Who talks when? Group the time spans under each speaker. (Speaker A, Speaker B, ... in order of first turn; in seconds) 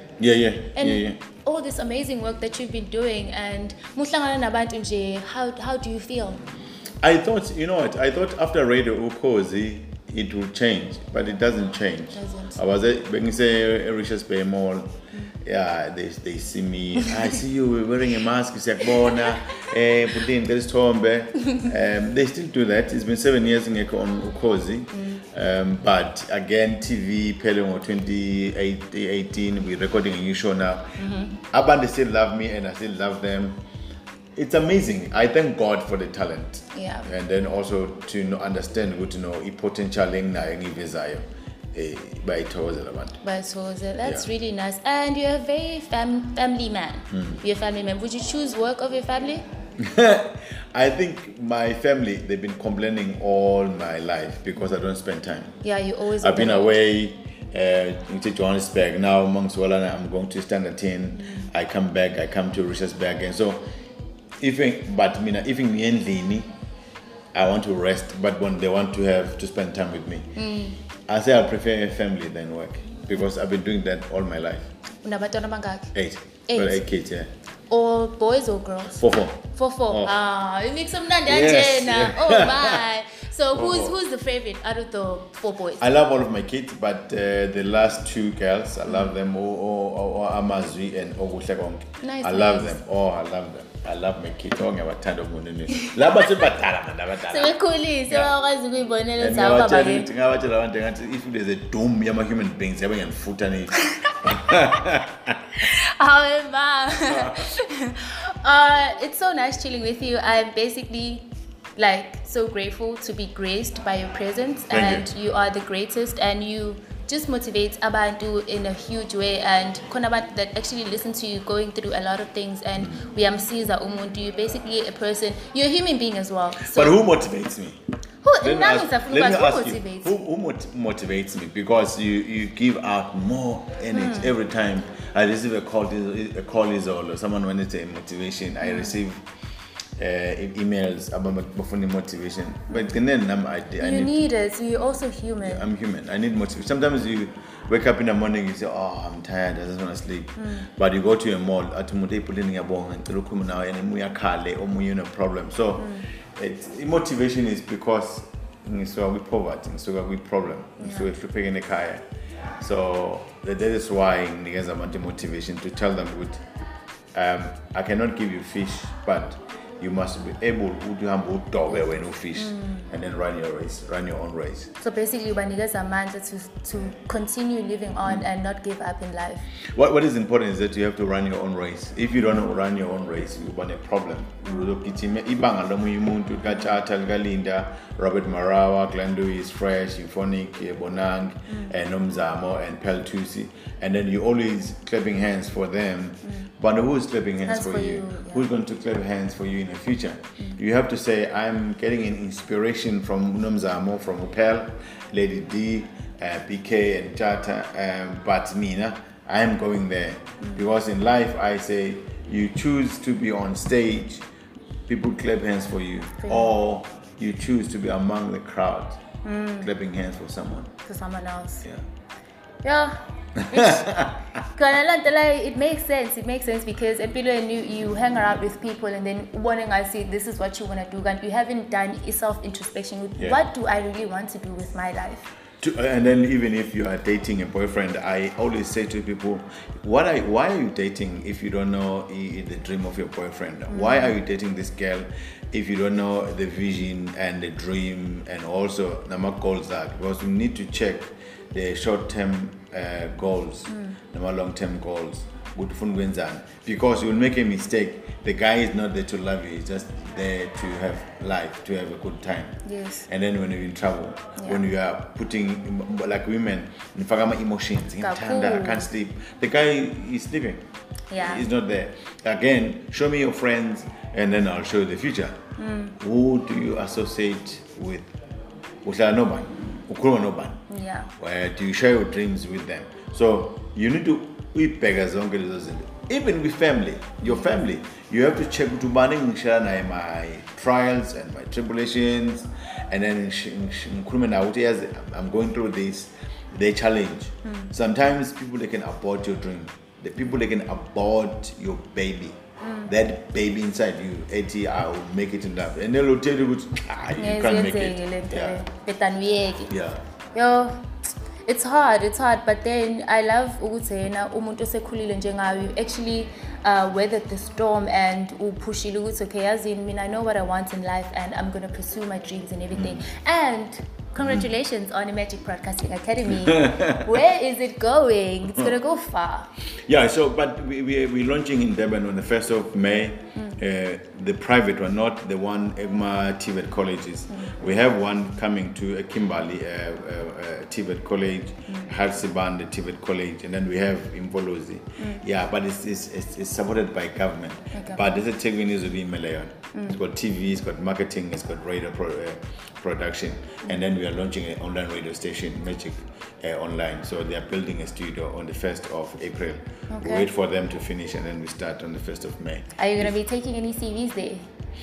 Speaker A: 0.2-1.2, 7.0-14.9, 15.4-31.0, 31.5-33.6, 34.4-43.2, 49.8-55.6, 56.2-63.6, 64.4-66.5, 67.3-70.3, 71.1-74.7, 75.9-77.3, 79.0-79.4, 81.3-82.9, 83.5-84.0, 85.8-97.5, 98.1-98.3, 99.2-105.2, 107.1-107.4, 114.7-115.1, 126.6-127.8, 128.4-139.2, 140.0-144.3, 145.4-162.0, 162.6-166.4, 167.1-174.7, 179.8-214.2, 214.9-219.0, 219.6-220.7, 223.5-224.2, 235.6-270.6, 271.2-275.4, 276.0-278.1, 278.8-280.6, 281.2-308.6, 309.7-310.0, 322.8-323.0, 324.2-324.5, 326.5-327.1, 329.9-363.1
Speaker B: 0.8-6.4, 12.1-12.6, 19.0-19.3, 24.9-25.2, 31.0-31.4, 36.7-37.1, 43.2-49.4, 55.6-56.8, 61.2-61.5, 70.4-70.8, 75.0-75.9, 76.5-76.8, 77.7-85.8, 92.0-92.8, 97.2-100.1, 105.6-111.3, 111.8-127.0, 128.2-130.1, 133.9-134.3, 138.7-138.9, 143.8-145.6, 150.4-150.7, 155.8-156.1, 172.4-172.9, 174.8-179.4, 197.5-198.5, 216.2-216.5, 219.2-219.7, 220.8-221.7, 222.6-223.0, 223.5-223.9, 224.5-235.3, 243.7-244.1, 253.7-254.0, 262.6-263.1, 268.0-268.9, 271.1-271.4, 275.6-276.0, 280.7-281.1, 297.4-297.7, 302.6-302.9, 307.2-309.7, 310.3-329.5, 347.7-348.0, 359.9-360.3, 362.8-364.4